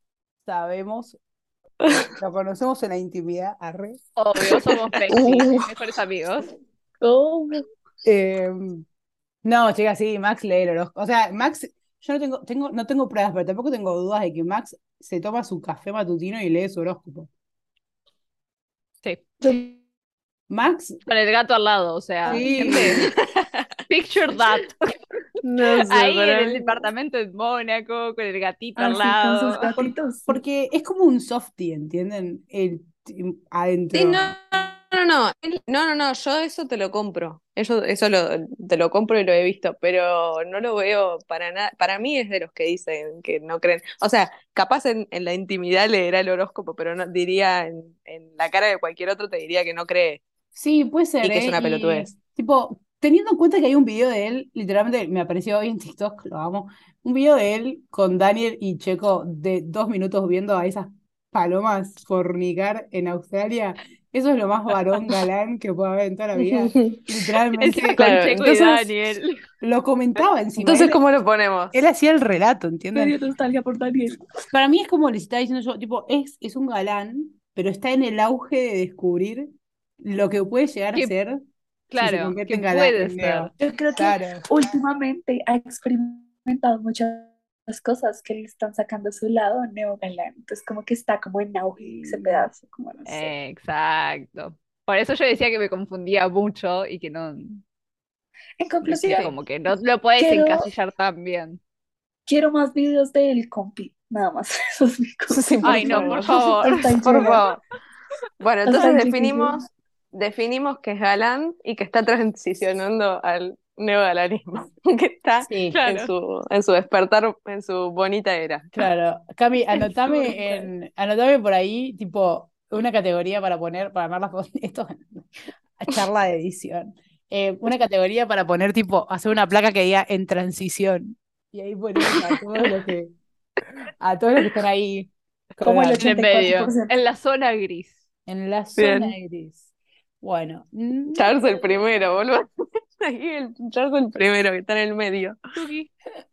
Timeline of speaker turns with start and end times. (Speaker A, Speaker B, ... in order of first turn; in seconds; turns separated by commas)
Speaker A: 0.4-1.2, Speaker B: 1.8-2.1, Speaker A: 2.1-4.0, Speaker C: 4.2-6.5, Speaker B: 4.4-5.7, Speaker D: 7.0-7.7, Speaker A: 8.1-8.8, Speaker A: 9.4-17.3, Speaker D: 19.4-19.8, Speaker A: 20.5-21.0, Speaker C: 21.1-23.0, Speaker A: 22.2-23.0, Speaker B: 22.8-23.7, Speaker C: 23.9-24.8, Speaker B: 25.4-26.9, Speaker C: 25.8-29.9, Speaker D: 28.8-30.4, Speaker A: 30.3-34.3, Speaker B: 33.9-50.2, Speaker A: 50.5-68.5, Speaker B: 51.2-52.1, Speaker B: 66.4-67.0, Speaker C: 67.6-69.3, Speaker B: 67.9-69.0, Speaker A: 69.6-71.0, Speaker B: 70.6-71.8, Speaker A: 71.7-73.2, Speaker D: 73.0-74.2, Speaker A: 74.5-79.5, Speaker A: 80.0-81.4, Speaker C: 81.9-83.5, Speaker A: 82.0-84.5, Speaker D: 83.6-93.3, Speaker A: 91.8-92.5, Speaker C: 93.1-97.6, Speaker D: 98.6-99.3, Speaker C: 98.8-101.6, Speaker D: 100.2-100.7, Speaker D: 102.3-107.5, Speaker B: 105.3-107.6, Speaker C: 105.6-107.0, Speaker B: 108.4-118.7, Speaker D: 108.7-109.7, Speaker A: 115.4-115.8, Speaker C: 115.7-116.1, Speaker A: 118.7-133.1, Speaker C: 119.8-120.6, Speaker B: 132.1-132.4, Speaker A: 134.0-136.1, Speaker D: 135.6-136.9, Speaker C: 136.0-138.0, Speaker A: 138.3-139.7, Speaker B: 138.8-139.2, Speaker A: 140.2-141.3, Speaker B: 141.1-142.4, Speaker B: 143.0-145.4, Speaker C: 145.6-145.9